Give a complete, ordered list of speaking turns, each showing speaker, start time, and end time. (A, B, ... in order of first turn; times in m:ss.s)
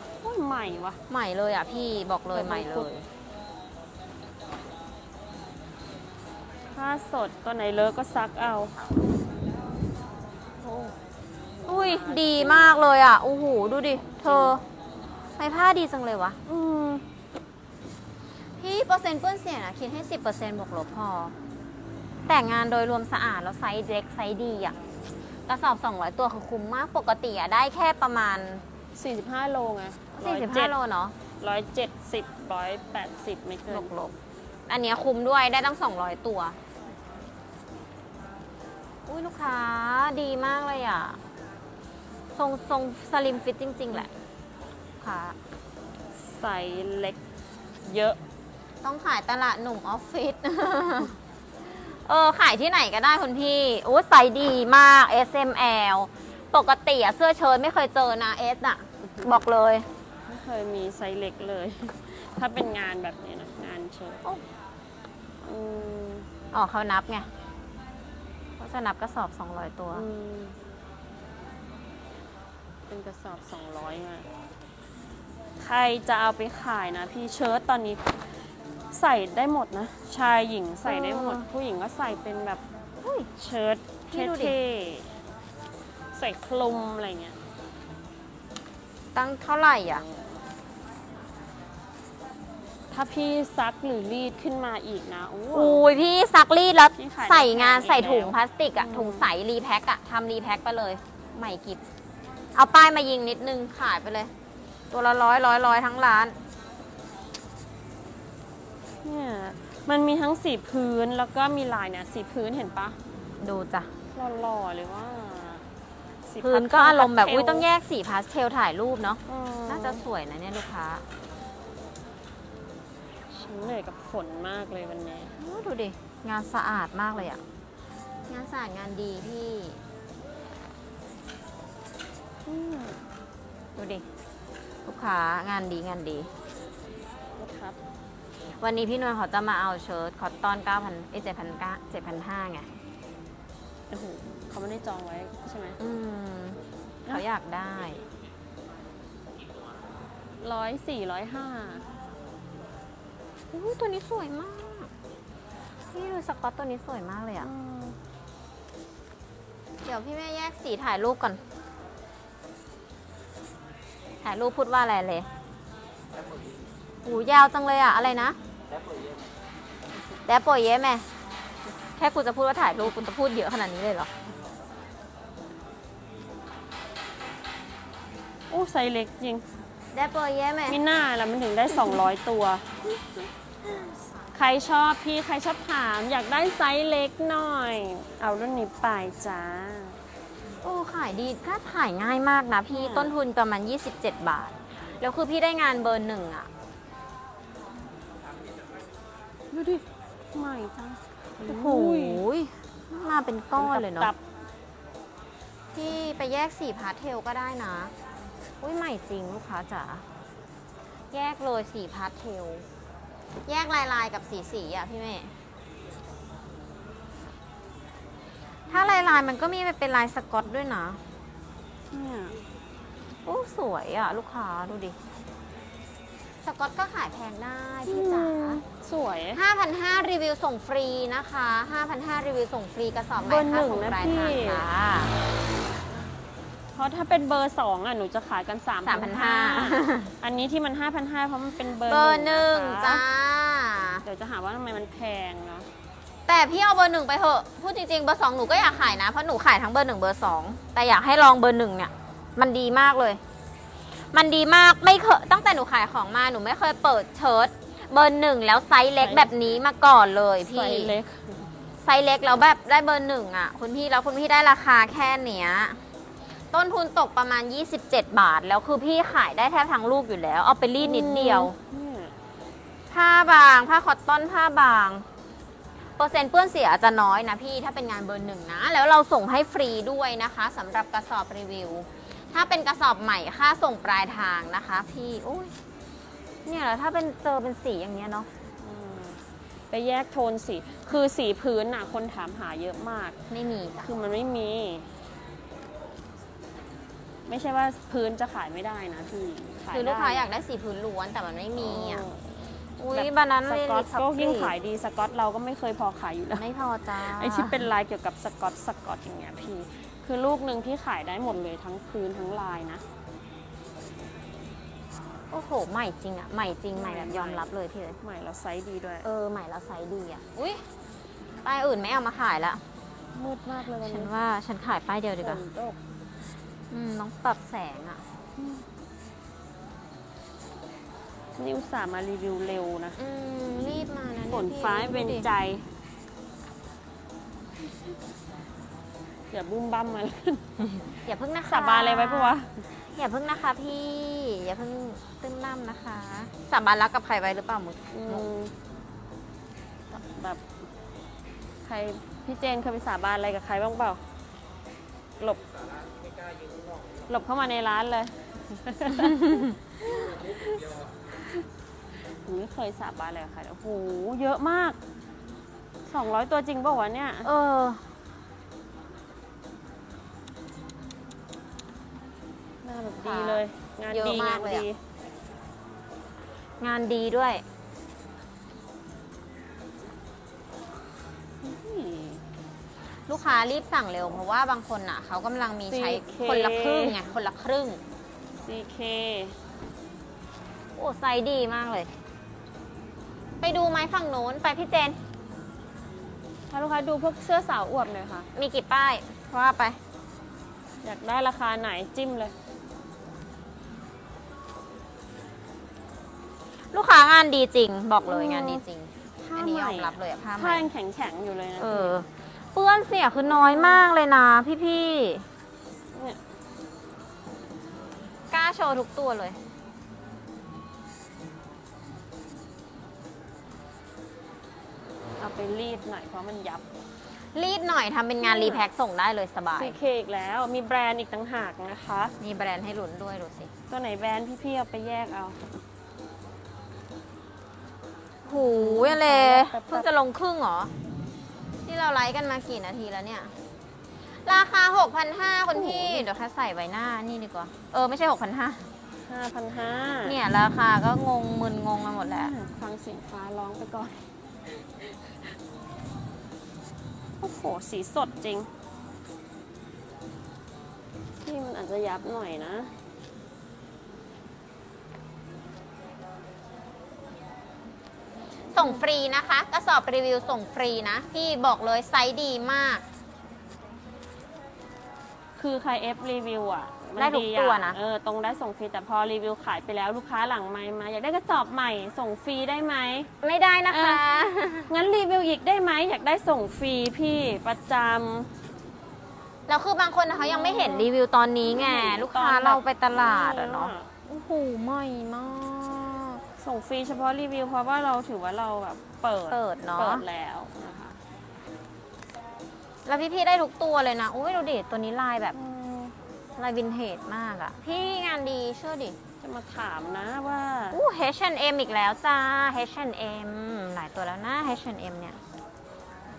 0:00.2-0:01.0 A
0:01.1-0:03.1 B
0:02.3-0:02.9 A
0:06.7-0:08.8 A
0:10.6-0:11.0 A
0:11.5-0:12.7 A
0:11.7-0:14.6 B
0:14.0-0:14.6 A
0:15.4-0:16.4 B
0:16.5-0:17.0 A
0:18.6-0:21.4 B
0:22.3-0:24.8 B
0:25.5-0:28.6 B
0:29.0-0:30.8 A
0:30.2-0:31.2 B
0:31.4-0:33.9 A
0:33.7-0:34.1 B
0:34.7-0:36.6 B
0:39.1-0:41.2 B
0:42.4-0:44.1 B
0:45.0-0:45.4 B
0:46.2-0:47.2 A
0:47.8-0:48.2 A
0:48.8-0:51.2 B
0:51.8-0:59.9 B
1:00.3-1:04.2 A
1:05.4-1:06.3 A
1:06.5-1:07.3 B
1:08.6-1:10.1 B
1:09.9-1:10.6 A
1:12.9-1:14.3 A
1:15.6-1:18.0 A
1:18.9-1:22.6 A
1:20.9-1:21.4 B
1:23.0-1:23.3 B
1:23.4-1:25.1 A
1:24.1-1:24.6 B
1:26.1-1:27.4 A
1:29.1-1:30.0 B
1:29.9-1:30.3 A
1:32.9-1:35.8 A
1:35.5-1:41.8 B
1:37.0-1:39.3 A
1:42.6-1:44.3 B
1:44.9-1:46.4 B
1:49.0-1:53.0 A
1:53.4-1:53.9 B
1:54.1-1:55.6 A
1:56.3-1:57.7 A
1:56.4-2:01.0 B
1:59.3-2:00.0 A
2:03.3-2:05.4 A
2:05.4-2:07.4 B
2:08.3-2:09.8 B
2:12.5-2:13.0 A
2:13.8-2:14.0 B
2:14.8-2:16.3 B
2:17.4-2:17.8 A
2:18.6-2:22.7 B
2:23.9-2:25.8 A
2:25.8-2:28.0 B
2:29.4-2:30.0 C
2:30.4-2:31.9 A
2:33.5-2:34.9 B
2:35.9-2:37.5 B
2:37.4-2:38.0 A
2:39.8-2:41.4 B
2:44.2-2:45.3 B
2:46.1-2:46.7 C
2:47.0-2:48.4 B
2:48.7-2:49.3 C
2:50.3-2:51.1 B
2:52.0-2:54.1 B
2:58.5-2:59.4 A
2:59.9-3:00.8 B
3:00.7-3:02.7 A
3:04.3-3:10.0 A
3:10.6-3:16.5 B
3:12.7-3:13.1 A
3:18.1-3:18.9 C
3:19.5-3:22.2 A
3:21.4-3:24.1 B
3:23.6-3:24.2 A
3:25.7-3:27.9 B
3:28.6-3:30.0 B
3:31.1-3:32.7 B
3:33.5-3:35.3 B
3:38.7-3:41.0 B
3:41.9-3:42.4 A
3:43.2-3:45.0 B
3:46.4-3:48.6 B
3:47.9-3:49.4 A
3:49.3-3:55.1 B
3:53.2-3:54.7 A
3:56.8-4:03.0 A
3:58.8-4:00.1 B
4:01.8-4:04.0 B
4:04.0-4:05.7 A
4:06.3-4:13.2 B
4:13.9-4:20.9 B
4:19.0-4:19.3 A
4:20.5-4:21.5 A
4:21.8-4:25.8 B
4:26.5-4:31.6 B
4:30.8-4:32.1 A
4:32.9-4:35.1 B
4:36.0-4:45.5 B
4:46.4-4:48.3 B
4:48.6-4:53.2 A
4:53.3-4:53.9 B
4:53.8-4:54.9 A
4:57.3-5:00.2 A
4:59.7-5:02.1 B
5:01.6-5:02.4 A
5:02.8-5:04.5 B
5:02.9-5:06.4 A
5:06.4-5:07.7 B
5:07.0-5:12.8 A
5:15.3-5:18.0 B
5:16.7-5:17.5 A
5:18.0-5:19.1 A
5:19.0-5:20.6 B
5:21.4-5:22.6 B
5:23.1-5:24.1 A
5:23.8-5:25.4 B
5:25.2-5:25.8 A
5:26.7-5:28.0 B
5:28.4-5:28.6 A
5:31.4-5:33.0 A
5:33.0-5:35.3 B
5:34.3-5:35.7 A
5:39.3-5:40.6 A
5:41.0-5:42.4 B
5:41.5-5:42.6 A
5:42.9-5:48.3 B
5:47.9-5:48.5 A
5:49.9-5:50.4 A
5:51.6-5:54.0 A
5:55.5-5:57.2 C
5:57.1-6:00.6 A
5:59.0-5:59.5 B
5:59.9-6:01.1 C
6:01.9-6:04.8 A
6:05.9-6:07.3 A
6:07.2-6:07.8 B
6:12.6-6:14.8 A
6:13.0-6:14.6 B
6:16.6-6:17.4 B
6:21.4-6:22.2 A
6:23.1-6:27.8 B
6:25.7-6:27.0 A
6:28.4-6:29.4 A
6:30.8-6:31.9 B
6:33.4-6:35.0 B
6:36.5-6:38.3 A
6:38.4-6:39.8 B
6:40.8-6:42.4 A
6:46.7-6:50.7 B
6:48.1-6:48.6 A
6:49.2-6:52.0 A
6:51.6-6:55.3 B
6:53.3-6:53.8 A
6:55.9-6:56.2 A
6:58.3-6:59.4 B
7:05.2-7:06.7 A
7:07.3-7:09.8 B
7:08.2-7:08.7 A
7:09.6-7:12.1 A
7:12.2-7:13.5 B
7:13.7-7:15.4 A
7:18.2-7:20.7 B
7:18.4-7:19.9 A
7:21.7-7:23.4 B
7:24.1-7:28.7 B
7:25.5-7:26.1 A
7:29.1-7:30.2 A
7:30.0-7:32.3 B
7:32.0-7:34.0 A
7:34.6-7:35.1 A
7:37.2-7:38.5 A
7:41.2-7:42.7 A
7:48.5-7:52.8 B
7:55.4-8:03.1 A
7:57.0-7:57.8 B
8:03.2-8:04.7 B
8:03.7-8:04.0 A
8:04.7-8:08.3 A
8:09.5-8:16.2 B
8:10.2-8:10.9 A
8:11.4-8:13.9 A
8:16.4-8:21.0 A
8:19.3-8:20.0 B
8:22.9-8:25.4 B
8:25.3-8:25.9 A
8:26.4-8:29.0 B
8:29.2-8:30.8 A
8:30.7-8:35.2 B